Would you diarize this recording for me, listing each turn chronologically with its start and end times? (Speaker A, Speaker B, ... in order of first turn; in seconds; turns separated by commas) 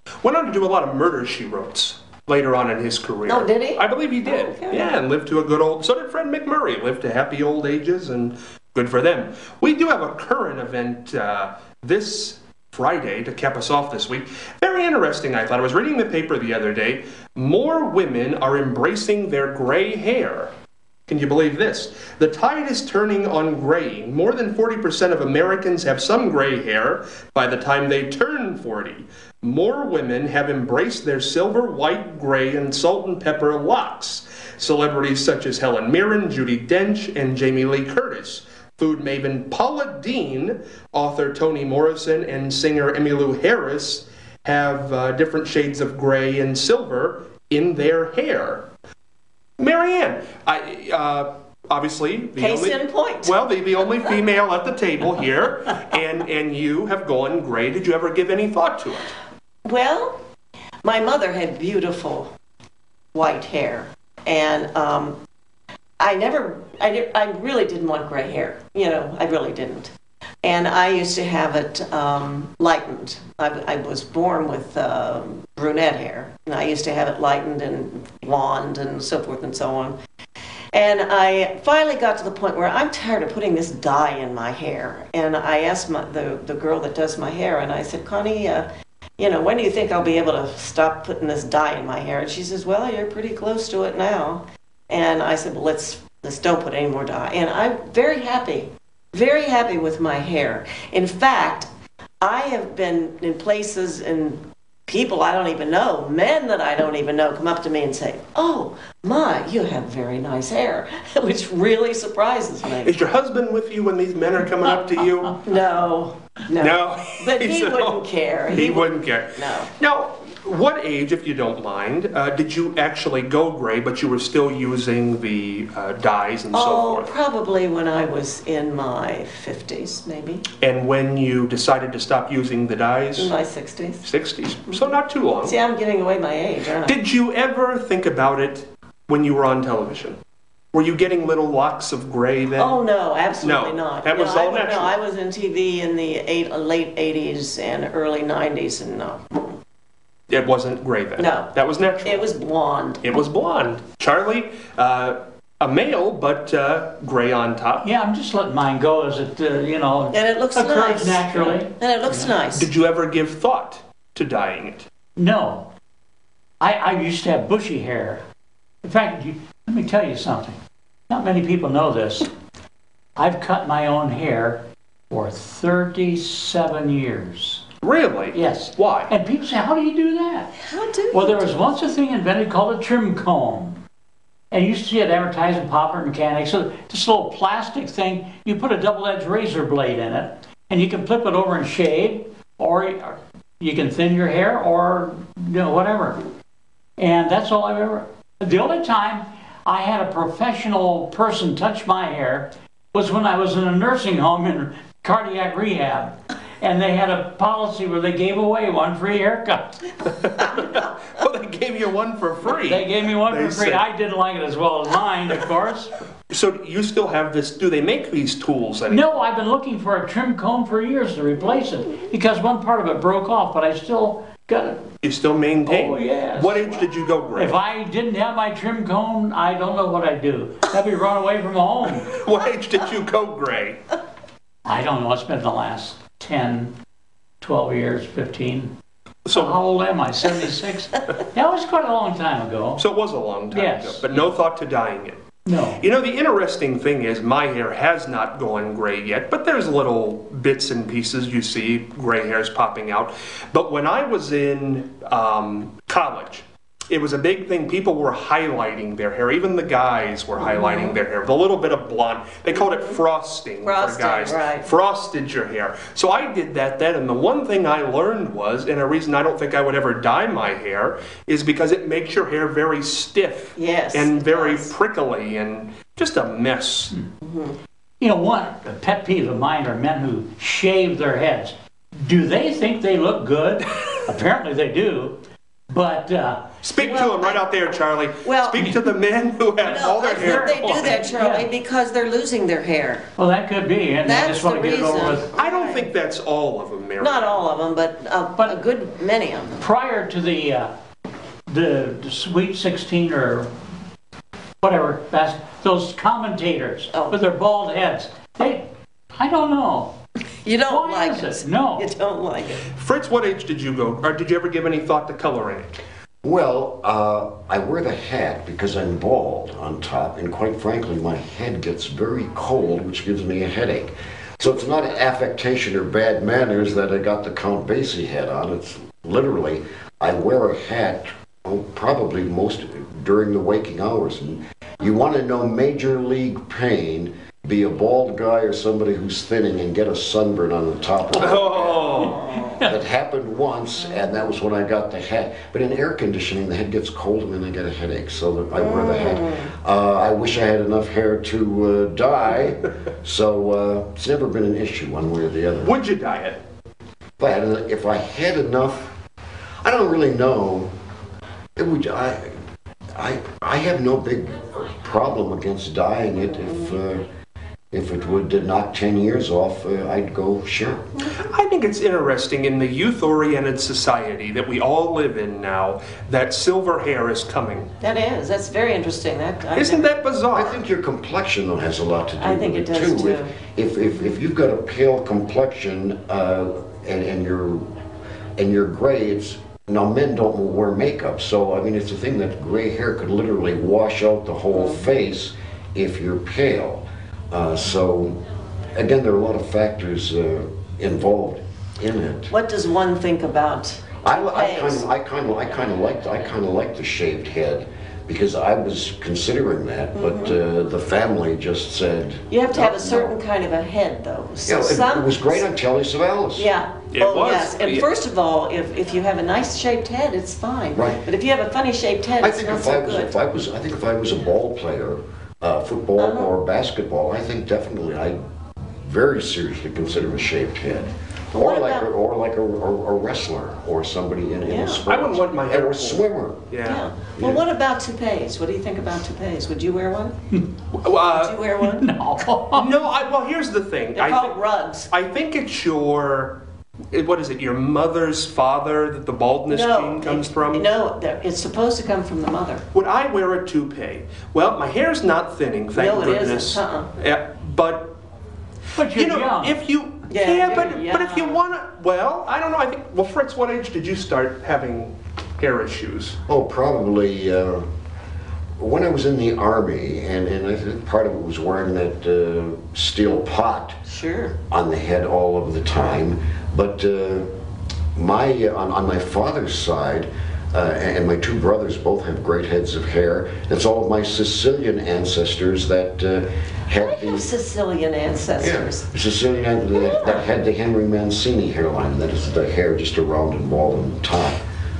Speaker A: 0.2-20.5, Speaker B: 3.2-4.9, Speaker A: 21.1-48.7, Speaker A: 49.6-59.1, Speaker B: 52.4-53.3, Speaker B: 59.6-60.2, Speaker B: 60.8-62.3, Speaker B: 63.1-65.2, Speaker B: 66.0-69.9, Speaker B: 70.4-79.9, Speaker B: 80.7-88.7, Speaker B: 89.2-101.7, Speaker B: 102.2-112.9, Speaker A: 112.8-115.4, Speaker B: 115.4-119.7, Speaker A: 116.6-127.1, Speaker B: 126.5-130.4, Speaker A: 130.6-133.3, Speaker B: 133.2-134.0, Speaker A: 134.0-135.6, Speaker B: 135.4-137.0, Speaker A: 136.8-140.2, Speaker A: 140.7-142.8, Speaker B: 142.6-149.5, Speaker A: 143.4-144.9, Speaker A: 150.3-152.3, Speaker B: 151.2-151.5, Speaker B: 152.0-153.1, Speaker A: 153.0-157.8, Speaker C: 157.8-162.3, Speaker B: 160.1-162.7, Speaker A: 162.5-164.9, Speaker C: 165.2-165.7, Speaker C: 166.6-168.2, Speaker C: 168.8-172.3, Speaker C: 173.2-177.6, Speaker A: 177.8-179.1, Speaker C: 178.3-180.6, Speaker B: 180.6-181.6, Speaker C: 181.1-183.8, Speaker C: 184.5-196.2, Speaker C: 197.0-209.8, Speaker A: 210.2-213.8, Speaker C: 212.6-215.9, Speaker A: 216.3-219.1, Speaker C: 218.9-224.8, Speaker A: 225.0-227.5, Speaker C: 225.7-232.1, Speaker A: 232.0-233.8, Speaker C: 234.7-236.7, Speaker C: 237.4-238.7, Speaker A: 239.2-239.5, Speaker C: 239.3-242.8, Speaker A: 242.8-245.2, Speaker C: 243.5-244.2, Speaker C: 245.4-245.8, Speaker A: 245.8-276.9, Speaker B: 260.4-261.0, Speaker B: 262.5-263.0, Speaker B: 263.6-264.7, Speaker B: 273.6-274.7, Speaker B: 277.2-277.6, Speaker C: 278.0-285.2, Speaker C: 285.7-286.5, Speaker A: 286.6-291.1, Speaker B: 286.8-287.4, Speaker B: 288.2-288.6, Speaker C: 288.6-288.8, Speaker B: 289.6-293.1, Speaker C: 290.0-291.5, Speaker C: 293.2-295.3, Speaker B: 294.0-295.9, Speaker A: 295.3-297.4, Speaker B: 297.0-299.6, Speaker C: 299.6-300.7, Speaker C: 301.5-303.5, Speaker C: 304.6-309.9, Speaker B: 310.4-312.6, Speaker C: 310.7-311.9, Speaker A: 312.7-315.8, Speaker D: 316.2-341.9, Speaker A: 341.1-342.2, Speaker B: 341.9-342.6, Speaker C: 342.0-342.7, Speaker D: 342.6-355.8, Speaker B: 348.6-349.5, Speaker A: 355.6-356.4, Speaker D: 357.2-358.9, Speaker D: 359.6-360.7, Speaker D: 361.6-362.4, Speaker D: 362.9-367.1, Speaker D: 367.7-370.9, Speaker A: 371.1-377.7, Speaker B: 377.8-379.9, Speaker A: 379.5-380.6, Speaker D: 380.3-387.7, Speaker B: 382.2-383.3, Speaker D: 388.4-398.2, Speaker B: 394.5-394.8, Speaker D: 398.7-402.3, Speaker B: 402.3-404.8, Speaker D: 404.0-413.1, Speaker B: 409.9-410.4, Speaker B: 412.3-415.4, Speaker D: 414.4-416.5, Speaker B: 416.4-423.1, Speaker A: 416.9-417.9, Speaker D: 420.7-421.0, Speaker D: 422.2-436.5, Speaker B: 426.0-426.3, Speaker B: 431.3-431.9, Speaker B: 434.5-434.8, Speaker A: 434.9-436.9, Speaker B: 436.6-440.2, Speaker D: 437.1-437.4, Speaker A: 440.8-441.4, Speaker B: 441.1-441.9, Speaker C: 441.6-442.6, Speaker A: 442.5-444.4, Speaker B: 443.9-444.9, Speaker A: 444.9-446.4, Speaker A: 446.9-450.7, Speaker B: 449.5-452.6, Speaker A: 452.7-458.0, Speaker B: 455.7-456.9, Speaker C: 458.8-459.6, Speaker A: 458.9-466.2, Speaker B: 460.1-461.4, Speaker D: 466.3-467.6, Speaker D: 468.6-473.8, Speaker B: 473.9-474.4, Speaker D: 474.5-477.3, Speaker D: 477.9-487.3, Speaker B: 486.8-488.9, Speaker D: 488.4-494.4, Speaker B: 489.7-490.2